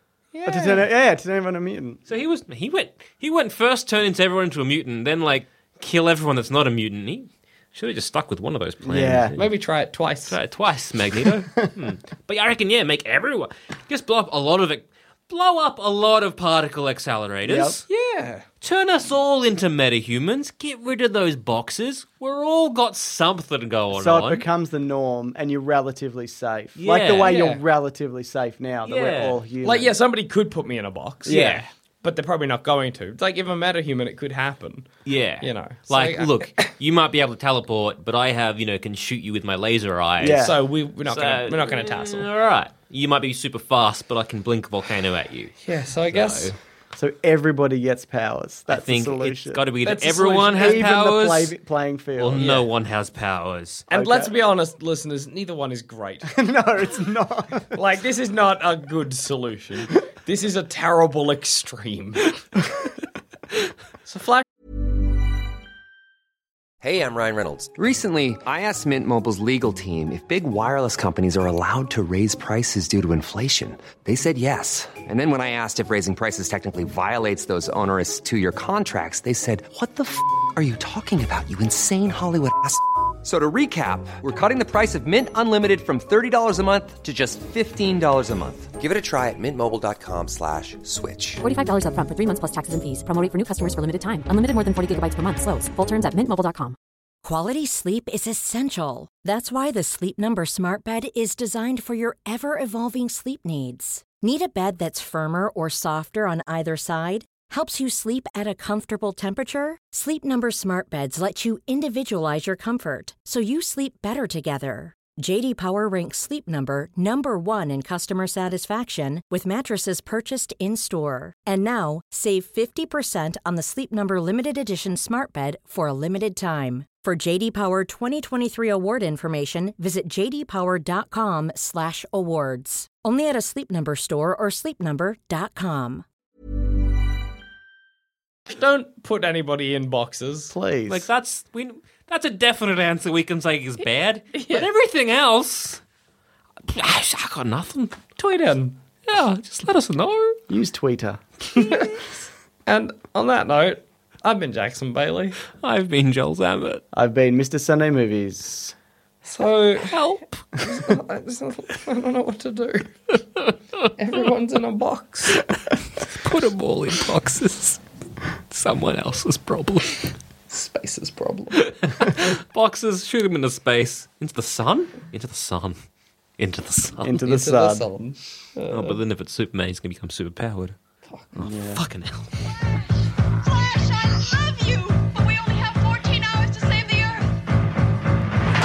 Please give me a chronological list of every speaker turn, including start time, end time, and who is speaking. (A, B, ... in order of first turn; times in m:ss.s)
0:00.3-0:00.9 A
0:00.5-0:02.0 B
0:02.1-0:09.5 C
0:08.8-0:09.4 B
0:09.4-0:10.4 A
0:10.3-0:17.8 C
0:17.4-0:17.8 B
0:17.9-0:18.4 A
0:18.6-0:24.5 C
0:24.0-0:30.0 B
0:26.8-0:27.6 C
0:28.8-0:29.4 C
0:29.6-0:34.9 A
0:31.3-0:31.7 B
0:31.3-0:31.7 C
0:35.1-0:40.5 C
0:35.4-0:36.7 A
0:40.2-0:40.6 B
0:40.4-0:42.3 A
0:41.1-0:45.5 C
0:45.6-0:46.5 A
0:46.1-0:46.6 C
0:47.0-0:49.6 B
0:48.7-0:51.6 C
0:49.8-0:50.9 A
0:50.5-0:52.5 B
0:52.2-0:53.9 C
0:52.4-0:52.6 A
0:53.9-0:56.3 A
0:53.9-0:54.3 B
0:56.3-0:57.8 B
0:57.7-1:02.3 A
1:04.1-1:04.4 A
1:06.8-1:31.4 D
1:31.4-1:36.8 E
1:37.2-2:16.0 F
2:18.5-2:20.5 A
2:20.5-2:21.0 B
2:20.9-2:25.8 C
2:24.3-2:24.7 A
2:26.6-2:28.2 C
2:28.2-2:28.8 A
2:29.0-2:30.4 C
2:30.5-2:31.8 B
2:31.6-2:31.9 A
2:32.7-2:35.4 A
2:35.5-2:36.8 C
2:36.9-2:38.7 B
2:39.2-2:40.0 A
2:39.9-2:40.2 C
2:40.6-2:43.1 A
2:43.4-2:43.8 C
2:44.0-2:45.5 A
2:46.0-2:47.8 C
2:48.5-2:50.2 C
2:50.5-2:51.7 A
2:51.6-2:55.8 C
2:56.4-2:57.2 C
2:57.0-2:57.9 B
2:57.2-2:59.0 A
2:58.7-3:00.8 C
3:01.1-3:01.4 A
3:01.4-3:02.3 C
3:01.4-3:01.8 B
3:03.4-3:07.4 G